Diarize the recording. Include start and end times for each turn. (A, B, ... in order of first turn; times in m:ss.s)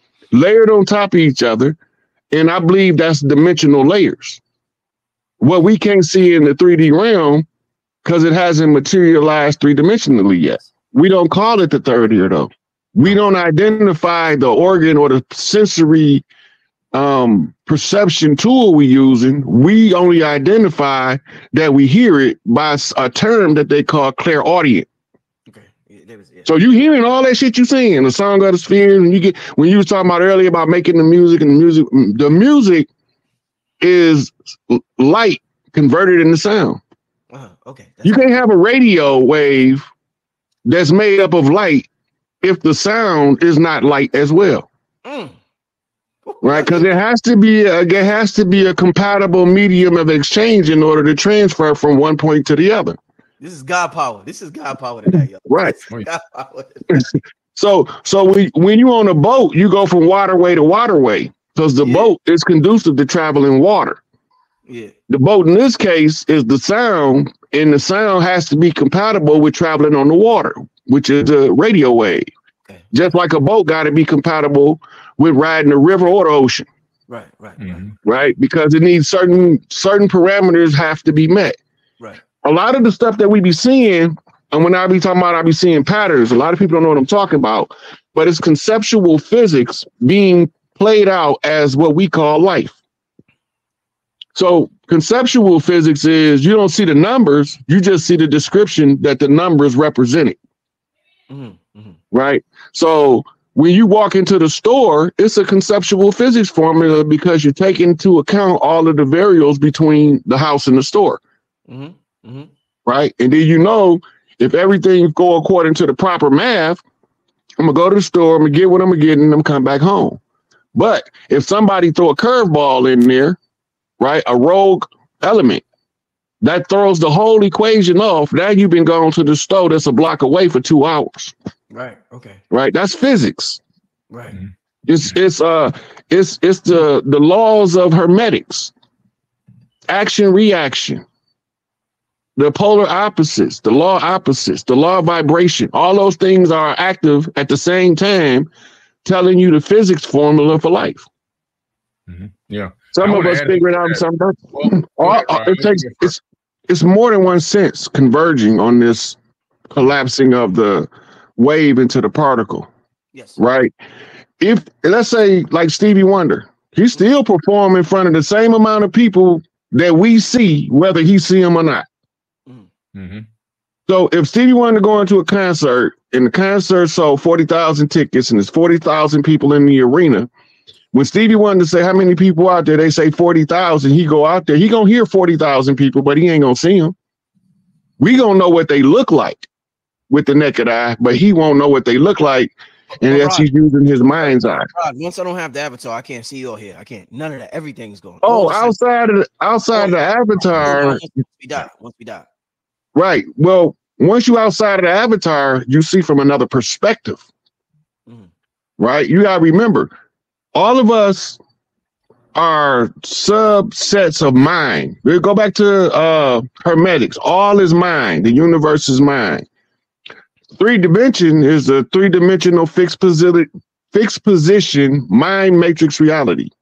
0:00.3-0:01.8 A
0:02.3-0:04.4 A
0:05.4-0:07.4 A
0:08.0-0:16.2 A
0:16.9-0:24.9 A
0:25.5-0:26.5 B
0:26.4-0:32.9 A
0:33.8-0:36.8 A
0:37.3-0:38.4 B
0:38.0-0:39.8 A
0:40.6-0:41.9 A
0:42.4-0:44.7 A
0:45.0-0:45.4 B
0:46.2-0:46.9 B
0:46.4-0:53.0 A
0:53.4-0:57.0 B
0:55.4-0:55.7 A
0:56.9-1:04.0 A
1:01.8-1:02.1 B
1:04.7-1:04.9 B
1:05.1-1:12.2 A
1:12.9-1:16.7 A
1:17.1-1:17.9 B
1:17.6-1:17.9 C
1:18.0-1:21.6 A
1:22.4-1:32.8 A
1:34.3-1:40.4 A
1:41.3-1:42.0 B
1:42.1-1:51.2 A
1:51.7-1:52.5 B
1:52.8-1:56.8 A
1:57.6-2:00.2 A
2:00.7-2:03.4 A
2:04.0-2:05.6 A
2:06.4-2:11.3 A
2:11.7-2:12.4 B
2:12.5-2:13.6 A
2:14.1-2:14.4 B
2:14.9-2:18.7 A
2:19.9-2:21.0 A
2:22.4-2:28.5 A
2:29.0-2:31.0 A
2:32.1-2:34.0 C
2:32.9-2:39.2 A
2:34.5-2:36.1 C
2:39.7-2:42.7 A
2:43.1-2:43.4 B
2:43.4-2:43.7 A
2:44.4-2:51.8 A
2:52.9-2:53.3 C
2:53.9-3:00.3 A
3:00.9-3:06.9 A
3:08.0-3:09.5 A
3:10.1-3:14.6 A
3:13.0-3:13.5 B
3:14.2-3:18.8 B
3:18.2-3:21.0 A
3:19.7-3:22.3 B
3:22.9-3:27.2 A
3:28.8-3:29.9 A
3:30.5-3:31.4 A
3:32.3-3:39.4 A
3:40.6-3:46.5 A